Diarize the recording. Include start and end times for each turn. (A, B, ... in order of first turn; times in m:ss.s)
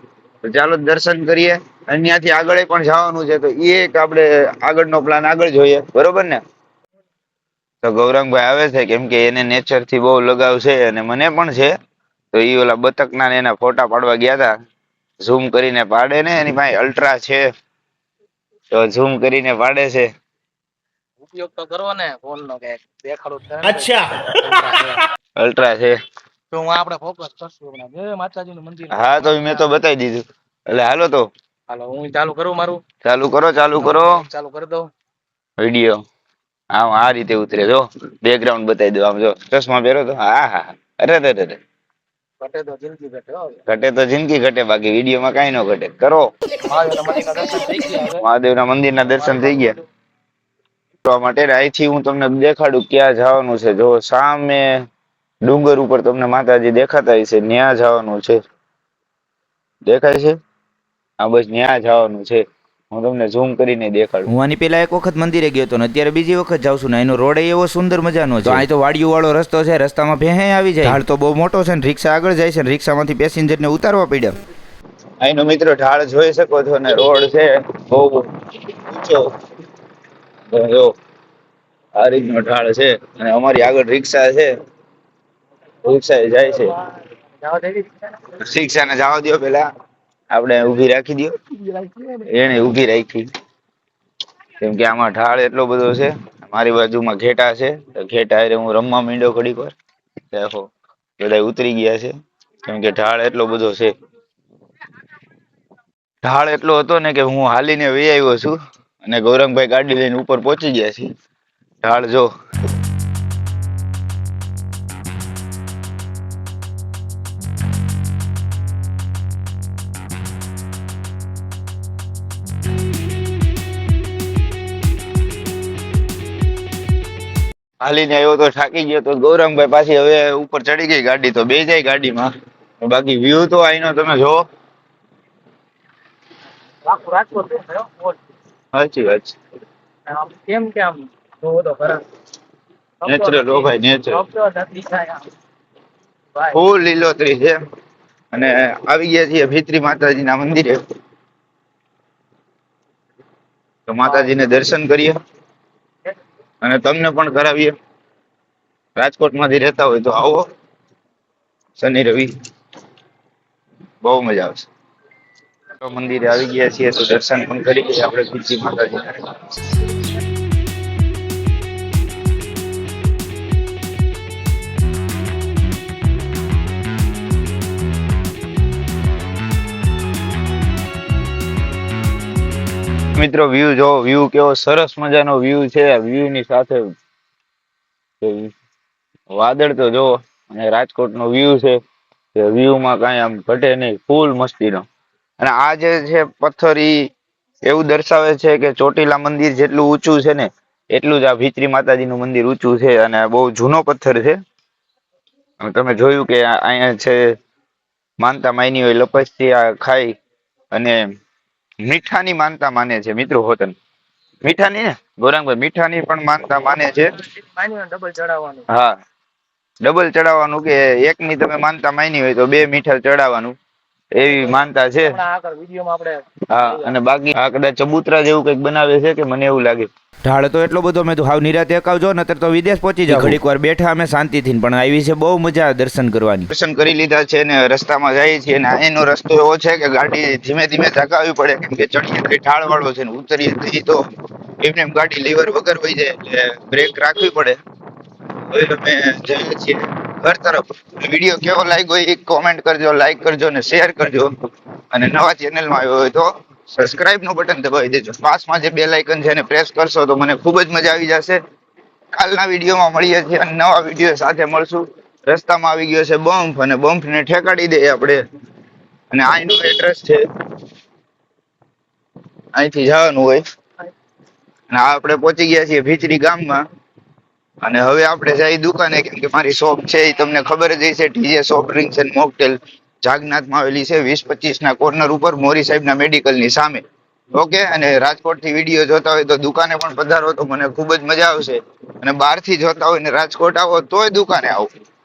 0:00.4-0:06.4 A
0:07.8-0:11.7 A
0:12.3-0:14.5 A
0:15.2-0:17.5 A
0:18.7-0:20.1 A
0:21.2-0:25.1 B
0:25.4-0:26.0 A
0:26.5-0:29.7 B
0:28.9-0:31.3 A
0:31.7-0:32.8 B
0:33.0-0:34.2 A
0:33.8-0:34.9 B
0:35.6-0:36.0 A
0:36.7-0:41.6 A
0:42.4-0:43.6 B
0:43.7-0:46.3 A
0:46.6-0:48.2 B
0:48.2-0:49.8 A
0:49.2-0:49.7 B
0:51.0-0:54.8 A
0:55.4-0:58.4 A
0:59.8-1:00.4 A
1:01.2-1:04.3 A
1:04.3-1:14.4 C
1:15.2-1:19.3 A
1:20.5-1:20.9 A
1:21.9-1:24.5 A
1:25.8-1:26.7 A
1:27.4-1:28.1 B
1:28.3-1:29.7 A
1:30.3-1:33.3 A
1:34.6-1:39.7 A
1:40.3-1:42.1 A
1:42.6-1:43.9 A
1:46.2-1:51.1 A
1:51.8-1:52.3 A
2:07.8-2:14.4 A
2:16.8-2:18.2 B
2:18.7-2:19.4 A
2:20.1-2:22.0 B
2:23.0-2:25.3 B
2:23.0-2:24.2 A
2:26.5-2:27.6 A
2:28.3-2:30.8 A
2:33.9-2:35.2 A
2:34.0-2:34.3 B
2:36.6-2:37.7 A
2:39.0-2:40.4 A
2:41.8-2:42.3 A
2:44.0-2:44.7 A
2:45.8-2:49.3 A
3:03.2-3:06.9 A
3:08.2-3:08.5 A
3:09.3-3:11.8 A
3:12.3-3:14.8 A
3:15.4-3:17.1 A
3:17.6-3:24.4 A
3:25.6-3:27.2 A
3:28.2-3:30.2 A
3:30.7-3:31.0 A
3:31.8-3:33.8 A
3:34.4-3:37.1 A
3:37.2-3:38.6 B
3:38.7-3:39.0 A
3:39.8-3:43.6 A
3:44.1-3:45.2 A
3:44.2-3:46.9 B
3:46.5-3:49.9 A
3:50.2-3:56.5 C
3:53.1-3:53.4 A
3:56.5-4:04.0 A
4:04.6-4:07.6 A
4:08.5-4:14.3 A
4:14.9-4:21.4 A
4:22.1-4:28.2 A
4:29.1-4:30.2 A
4:32.5-4:33.4 A
4:34.7-4:36.6 A
4:37.6-4:46.8 A
4:47.3-4:54.7 A